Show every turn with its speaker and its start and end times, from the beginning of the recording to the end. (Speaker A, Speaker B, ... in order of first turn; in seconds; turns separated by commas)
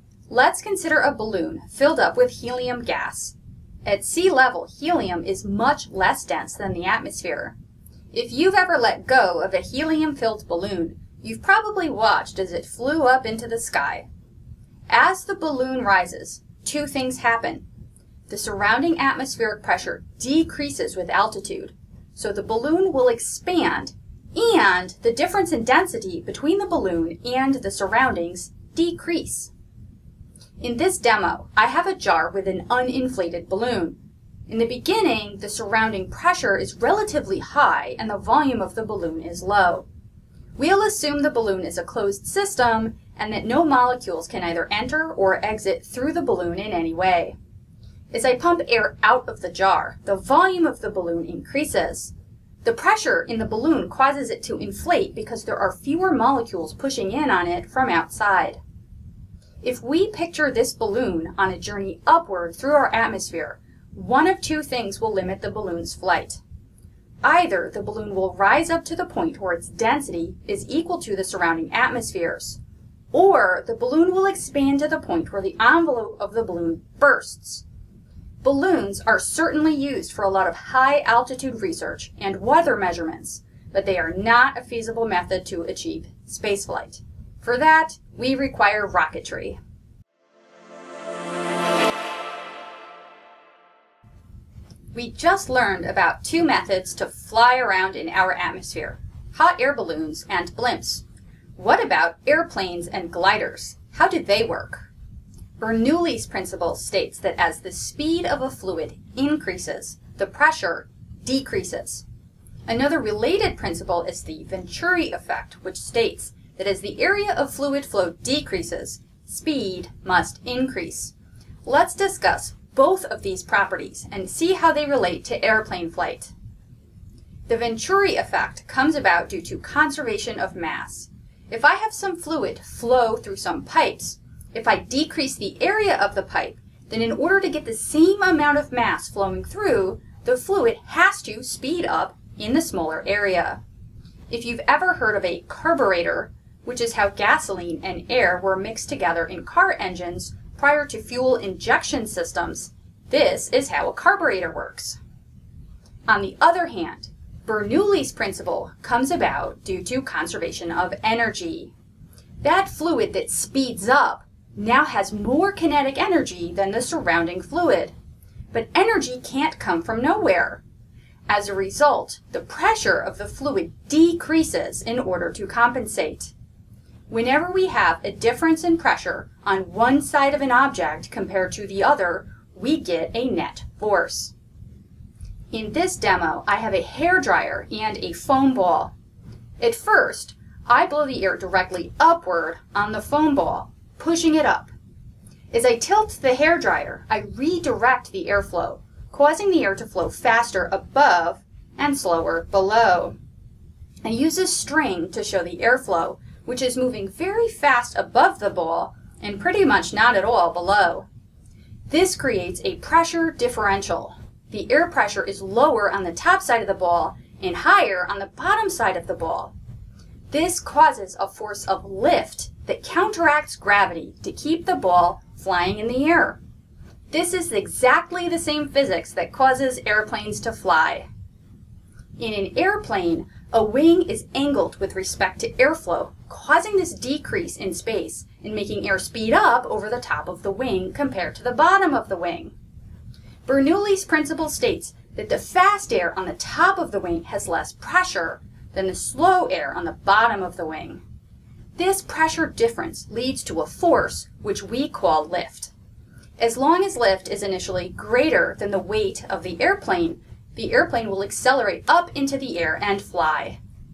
Speaker A: 0.3-7.6, Speaker A: 8.1-14.1, Speaker A: 14.9-17.6, Speaker A: 18.3-29.5, Speaker A: 30.6-39.9, Speaker A: 40.5-47.4, Speaker A: 48.1-58.6, Speaker A: 59.6-66.4, Speaker A: 67.2-72.6, Speaker A: 73.1-77.6, Speaker A: 78.4-89.6, Speaker A: 94.9-101.0, Speaker A: 101.6-104.9, Speaker A: 105.6-112.0, Speaker A: 112.7-121.1, Speaker A: 121.7-126.3, Speaker A: 127.5-143.6, Speaker A: 144.3-155.0, Speaker A: 156.1-161.7, Speaker A: 162.4-167.9, Speaker A: 168.5-170.6, Speaker A: 171.3-176.3, Speaker A: 177.1-184.3, Speaker A: 185.5-188.9, Speaker A: 189.6-194.7, Speaker A: 195.5-203.2, Speaker A: 204.0-211.1, Speaker A: 211.9-219.5, Speaker A: 220.3-226.4, Speaker A: 227.1-231.1, Speaker A: 232.2-242.5, Speaker A: 243.4-251.0, Speaker A: 251.8-255.7, Speaker A: 256.4-263.6